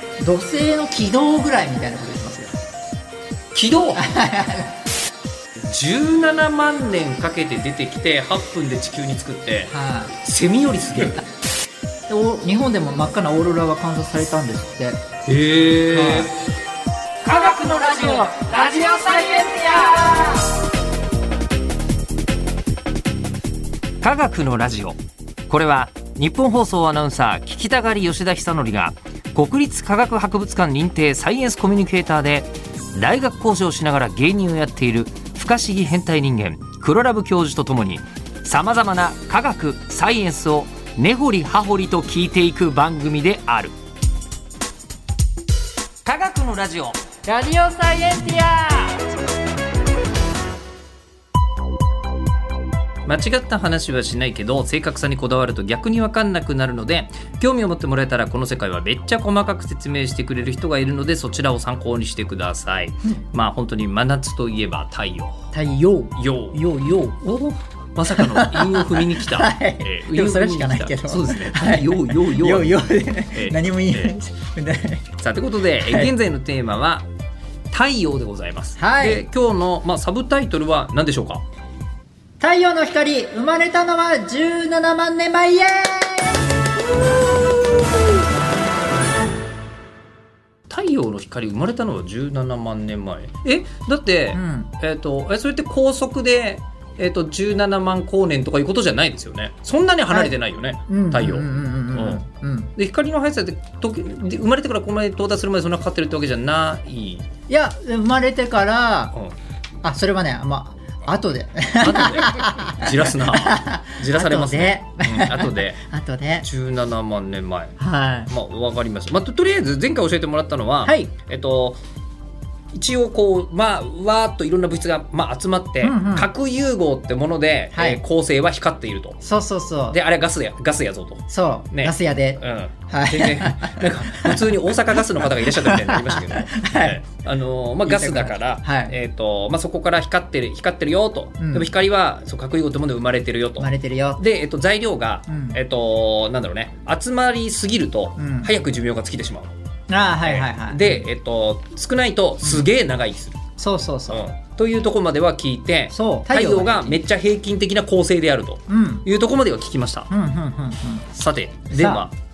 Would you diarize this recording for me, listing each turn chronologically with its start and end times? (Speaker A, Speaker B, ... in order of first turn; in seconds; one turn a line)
Speaker A: 0.2-2.6
Speaker B: 3.5-4.0
Speaker A: 4.0-4.7
Speaker B: 5.6-9.7
Speaker A: 9.7-10.2
Speaker B: 10.2-11.2
Speaker A: 12.1-15.0
Speaker B: 15.3-16.3
Speaker A: 15.9-16.3
Speaker B: 17.2-19.4
Speaker A: 17.3-20.4
Speaker B: 24.0-25.0
Speaker B: 25.5-43.7
Speaker B: 46.0-47.0
Speaker A: 47.2-49.0
Speaker B: 53.1-65.5
Speaker A: 65.5-67.2
Speaker B: 66.2-66.6
Speaker B: 67.2-74.1
Speaker A: 68.1-75.1
Speaker B: 75.2-77.1
Speaker A: 75.8-76.1
Speaker B: 77.7-81.4
Speaker A: 78.8-79.2
Speaker A: 82.4-86.5
Speaker B: 90.7-102.2
Speaker A: 94.3-94.7
Speaker A: 100.9-102.7
Speaker B: 102.8-107.2
Speaker A: 107.5-109.1
Speaker A: 109.8-116.5
Speaker B: 111.8-115.8
Speaker B: 116.4-117.8
Speaker A: 117.8-118.3
Speaker B: 118.3-121.8
Speaker A: 120.8-121.1
Speaker B: 122.7-129.2
Speaker A: 125.8-126.3
Speaker A: 127.7-128.0
Speaker A: 129.2-130.0
Speaker B: 129.9-149.5
Speaker A: 131.3-137.0
Speaker A: 137.8-138.9
Speaker A: 141.4-141.7
Speaker A: 143.6-144.2
Speaker A: 145.3-145.6
Speaker A: 148.2-148.5
Speaker A: 149.9-151.0
Speaker B: 150.2-153.4
Speaker A: 153.6-154.2
Speaker B: 154.1-160.1
Speaker A: 155.9-157.0
Speaker A: 158.7-159.1
Speaker A: 160.1-161.1
Speaker B: 161.1-162.1
Speaker A: 161.7-162.1